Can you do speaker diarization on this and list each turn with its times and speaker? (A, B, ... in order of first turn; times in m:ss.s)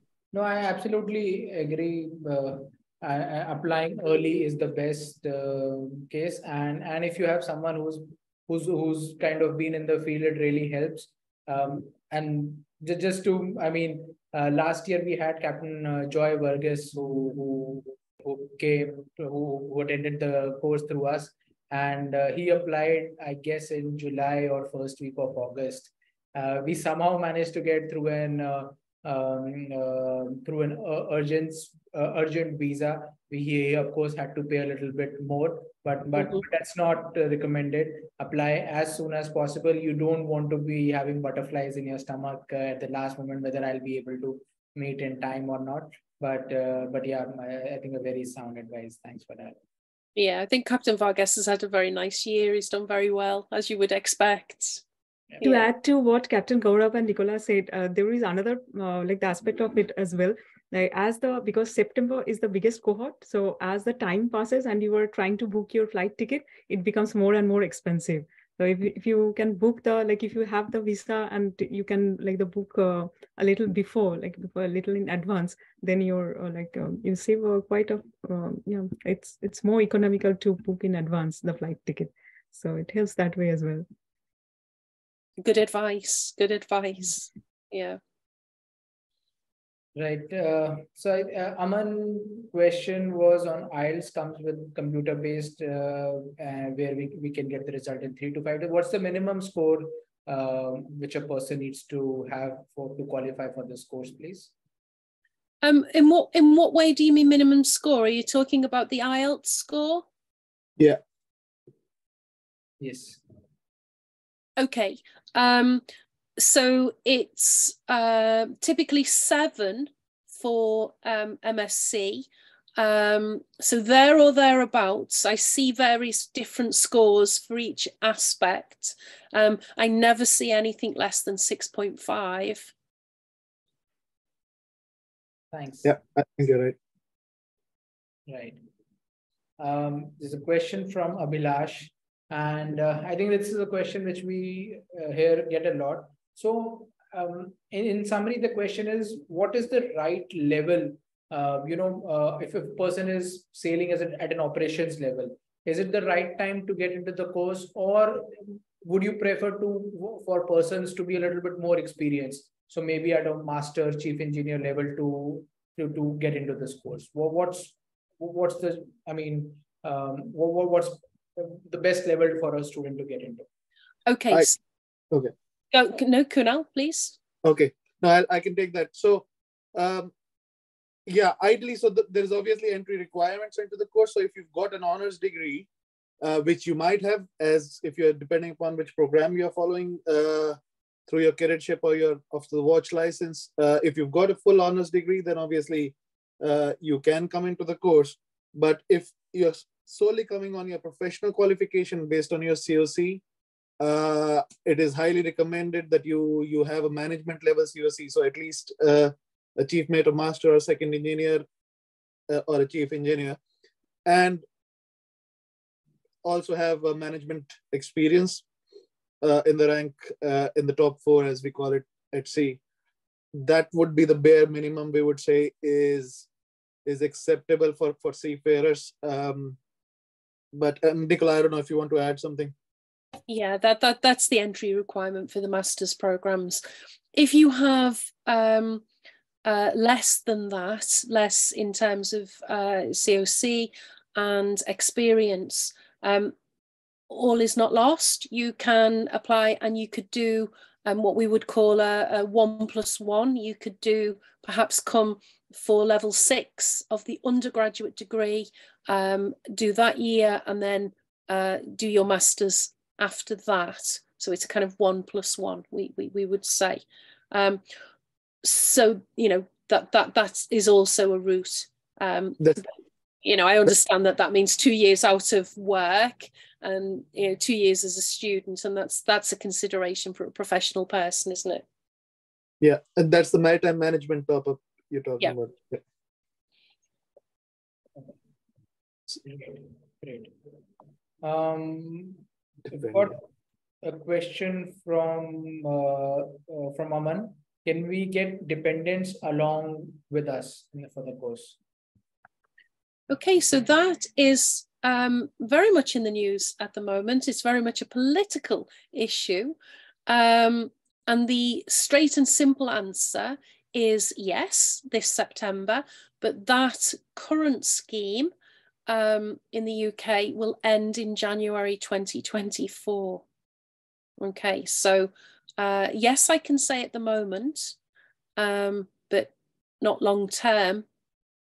0:00.3-0:49.6 A
0:50.2-0:54.8 B
0:55.4-0:55.7 B
0:55.4-1:23.9 C
1:25.4-1:28.0 B
1:30.0-1:44.5 A
1:45.6-1:50.1 B
1:52.8-1:53.2 A
1:54.6-1:55.8 B
1:56.4-2:12.7 B
2:15.5-2:15.9 A
2:15.8-2:16.8 D
2:18.3-2:18.6 A
2:19.6-2:53.5 A
2:54.1-2:54.6 B
2:55.7-2:57.2 B
2:57.4-3:00.1 D
3:01.1-3:05.7 D
3:06.2-3:23.2 D
3:23.8-3:31.4 D
3:32.3-3:33.4 D
3:34.1-3:34.4 D
3:36.2-3:38.4 D
3:39.2-3:42.6 D
3:43.3-3:46.3 D
3:46.8-3:49.6 D
3:50.5-3:52.5 D
3:53.3-3:56.6 B
3:57.1-3:58.8 B
3:59.4-4:06.4 B
4:07.1-4:27.6 B
4:28.4-4:32.7 B
4:33.2-4:41.6 B
4:42.6-4:45.8 D
4:49.2-4:50.3 A
4:51.2-4:53.2 A
4:53.8-5:01.6 A
5:03.1-5:09.6 B
5:10.1-5:18.3 B
5:18.9-5:23.2 B
5:24.2-5:27.8 B
5:28.4-5:30.9 B